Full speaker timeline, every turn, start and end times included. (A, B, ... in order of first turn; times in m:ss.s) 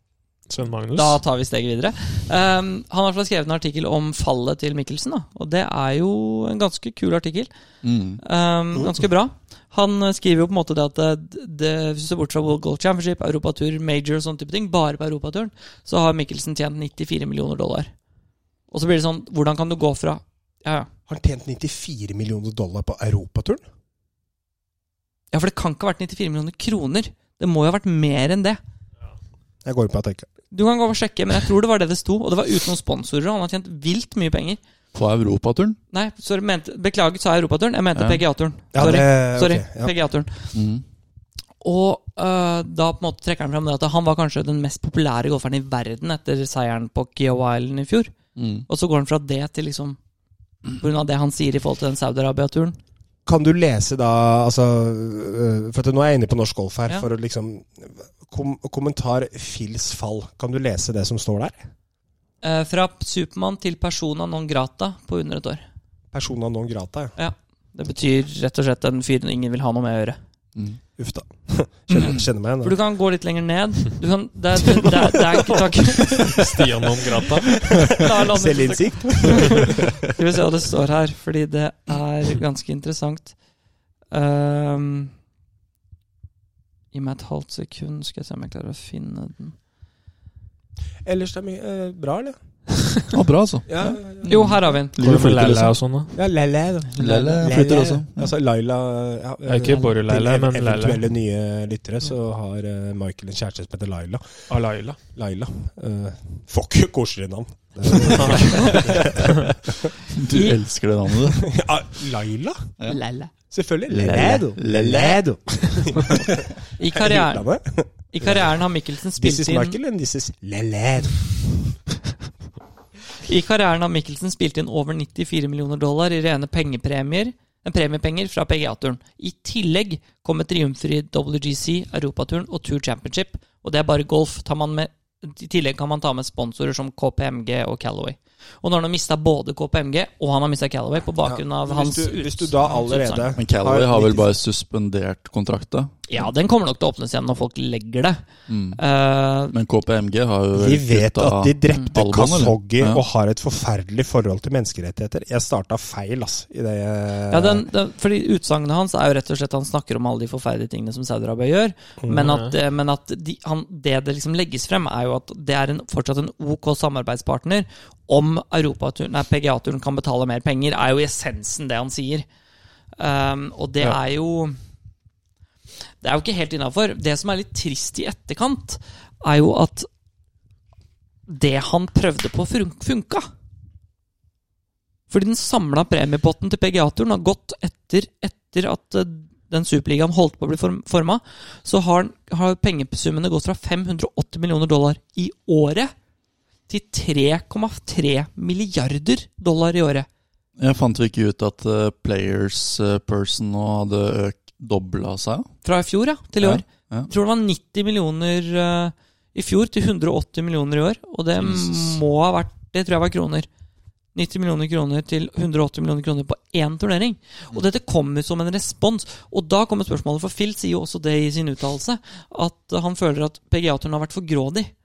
0:00.5-0:01.2 A
0:01.0-0:07.5 B
0:07.8-0:08.2 C
0:08.2-0:17.9 B
0:18.7-0:20.9 B
0:21.1-0:23.6 D
0:25.3-0:28.6 B
0:29.6-0:30.3 D
0:30.5-0:34.6 B
0:34.9-0:35.8 C
0:35.9-0:40.5 B
0:37.9-0:38.2 C
0:38.7-0:39.9 D
0:40.5-0:40.8 C
0:41.6-0:48.1 B
0:48.4-0:48.6 C
0:48.7-0:50.0 B
0:50.8-0:52.8 B
0:53.3-1:01.6 D
1:02.4-1:05.6 B
1:06.1-1:07.1 D
1:07.2-1:10.2 B
1:11.0-1:12.8 D
1:11.9-1:16.4 B
1:14.6-1:16.6 D
1:16.1-1:17.7 A
1:17.5-1:20.0 D
1:17.9-1:23.4 B
1:24.1-1:25.1 B
1:26.9-1:29.6 B
1:31.0-1:32.4 D
1:33.1-1:35.8 C
1:33.7-1:34.5 D
1:34.3-1:35.0 B
1:35.0-1:36.1 A
1:36.1-1:44.2 D
1:37.0-1:38.3 C
1:37.0-1:37.4 B
1:39.5-1:41.0 A
1:39.6-1:39.9 B
1:44.5-1:45.0 A
1:45.2-1:49.9 D
1:48.0-1:49.5 C
1:50.1-1:51.5 C
1:50.3-1:50.6 B
1:51.3-1:52.7 D
1:52.9-1:53.3 B
1:53.5-1:58.6 D
1:53.9-1:55.2 C
1:56.8-1:57.4 B
1:58.1-1:59.8 B
1:59.2-2:01.7 D
2:03.2-2:23.3 B
2:21.2-2:24.3 D
2:23.4-2:25.9 C
2:26.1-2:28.2 B
2:28.5-2:28.8 C
2:28.8-2:29.5 B
2:29.5-2:33.0 C
2:30.6-2:37.7 D
2:37.3-2:52.3 B
2:42.0-2:42.3 D
2:42.2-2:42.5 A
2:53.0-2:54.6 B
2:56.0-2:59.9 B
3:01.3-3:03.3 B
3:05.1-3:15.9 B
3:16.7-3:20.1 B
3:20.6-3:25.5 C
3:25.6-3:33.5 B
3:26.4-3:27.1 C
3:31.4-3:32.0 C
3:34.1-3:44.7 B